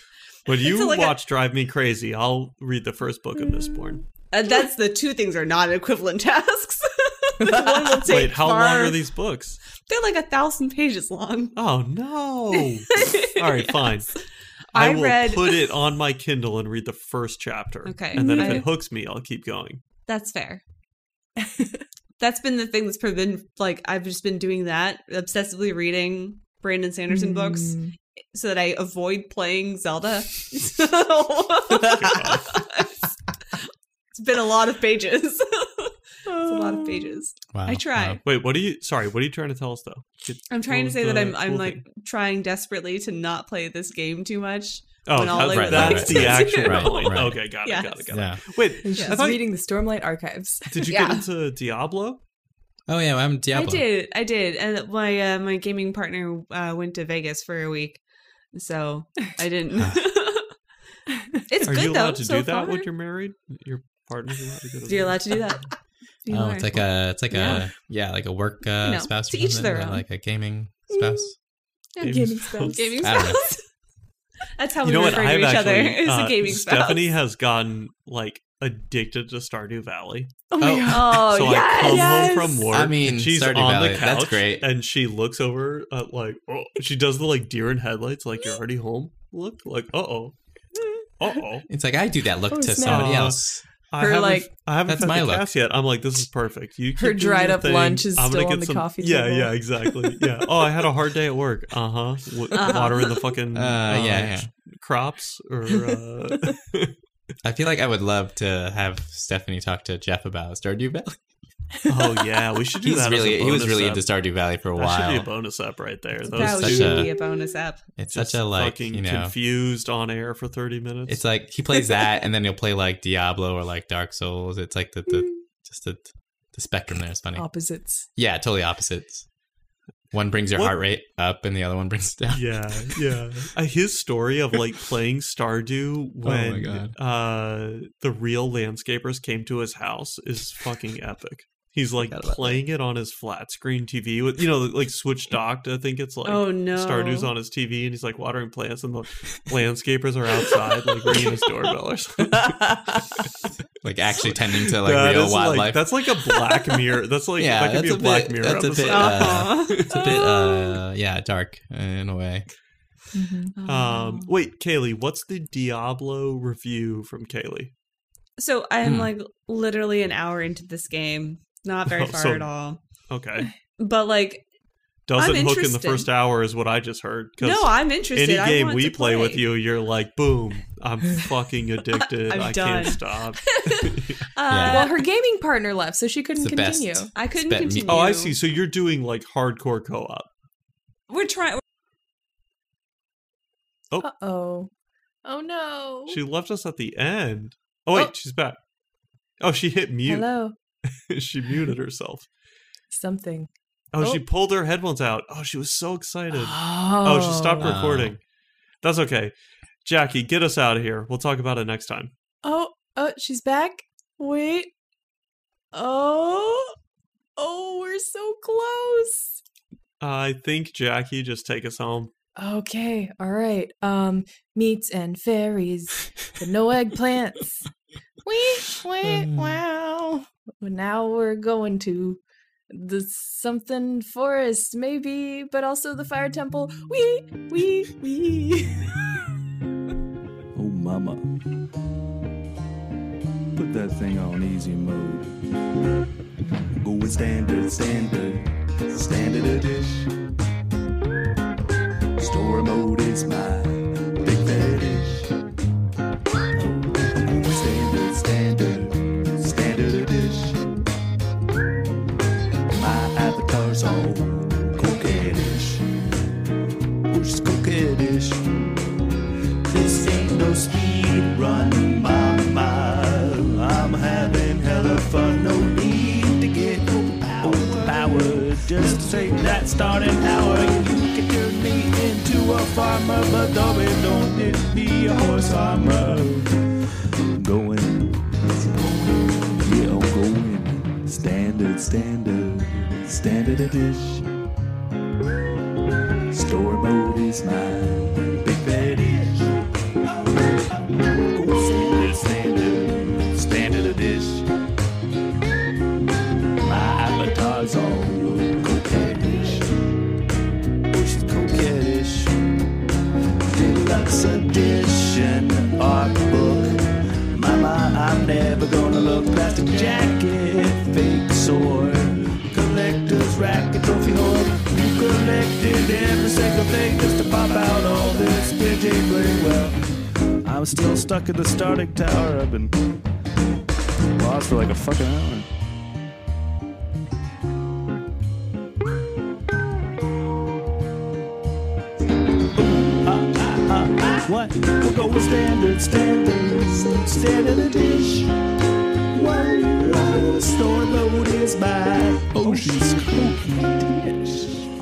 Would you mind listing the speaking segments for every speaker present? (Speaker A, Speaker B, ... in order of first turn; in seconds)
Speaker A: 0.5-4.0, 8.1-9.6, 11.6-14.2, 14.7-19.8, 31.8-32.6, 38.2-41.8, 45.1-49.5, 50.7-52.2, 61.6-65.4, 72.0-72.8, 74.8-80.3, 81.3-90.3, 91.2-91.7, 92.8-106.9, 111.9-114.1, 114.8-117.1, 118.1-121.2, 132.3-153.3, 154.2-160.2, 163.7-167.7, 171.9-172.5, 173.1-173.5, 175.1-184.2, 187.9-190.3, 196.1-198.6, 199.4-200.3, 201.0-202.3, 203.9-208.2, 208.8-212.1, 220.0-222.1
Speaker B: 0.6-1.2, 4.3-9.0, 9.9-11.6, 12.9-13.9, 14.7-15.7, 17.9-18.7, 20.1-20.6, 22.2-27.8, 28.3-33.5, 34.1-38.2, 40.5-48.1, 49.0-49.2, 50.9-51.2, 53.5-58.0, 58.5-60.5, 61.5-62.9, 64.9-65.7, 66.2-67.7, 68.8-70.0, 72.0-73.6, 74.6-77.1, 80.9-82.3, 102.5-103.1, 116.3-117.8, 146.2-147.3, 158.9-159.9, 163.6-164.3, 168.4-172.8, 173.8-174.5, 175.2-176.1, 177.4-179.4, 182.3-184.9, 187.2-188.4, 191.1-191.6
Speaker C: 7.4-8.1, 18.1-18.7, 21.4-21.8, 27.1-27.9, 36.3-37.2, 48.8-51.0, 70.9-71.3, 72.0-73.2, 80.5-82.7, 90.8-91.0, 92.5-93.3, 94.0-94.5, 97.0-100.1, 102.6-103.1, 117.1-117.5, 125.1-125.4, 127.3-128.1, 152.4-153.0, 163.1-163.5, 184.6-187.1, 194.0-194.7, 195.2-196.2, 200.1-200.6, 202.9-204.2, 206.3-207.7, 212.4-214.7, 215.7-216.7, 217.4-219.4, 222.4-227.7, 228.2-238.9
Speaker D: 37.5-38.2, 45.3-47.5, 48.1-48.4, 52.9-53.9, 66.3-71.3, 73.0-73.4, 80.6-81.2, 82.7-84.7, 91.7-93.6, 94.9-95.5, 103.5-104.5, 107.4-111.2, 112.8-115.3, 116.4-117.1, 118.0-119.3, 121.1-127.5, 128.2-129.3, 130.1-133.0, 136.2-136.9, 142.0-142.6, 153.8-155.9, 157.4-162.5, 168.8-169.1, 184.5-184.9, 186.4-188.1, 207.6-208.2, 229.0-229.6
Speaker E: 240.6-241.2, 243.6-245.4, 246.8-250.1, 252.2-255.3, 257.1-260.8, 262.7-265.9, 267.1-268.7, 269.7-286.5, 287.4-294.3, 296.3-299.6, 300.9-304.5, 306.6-309.7, 310.9-312.4, 313.5-329.8, 330.4-332.9, 334.1-335.5, 342.6-348.4, 349.1-354.7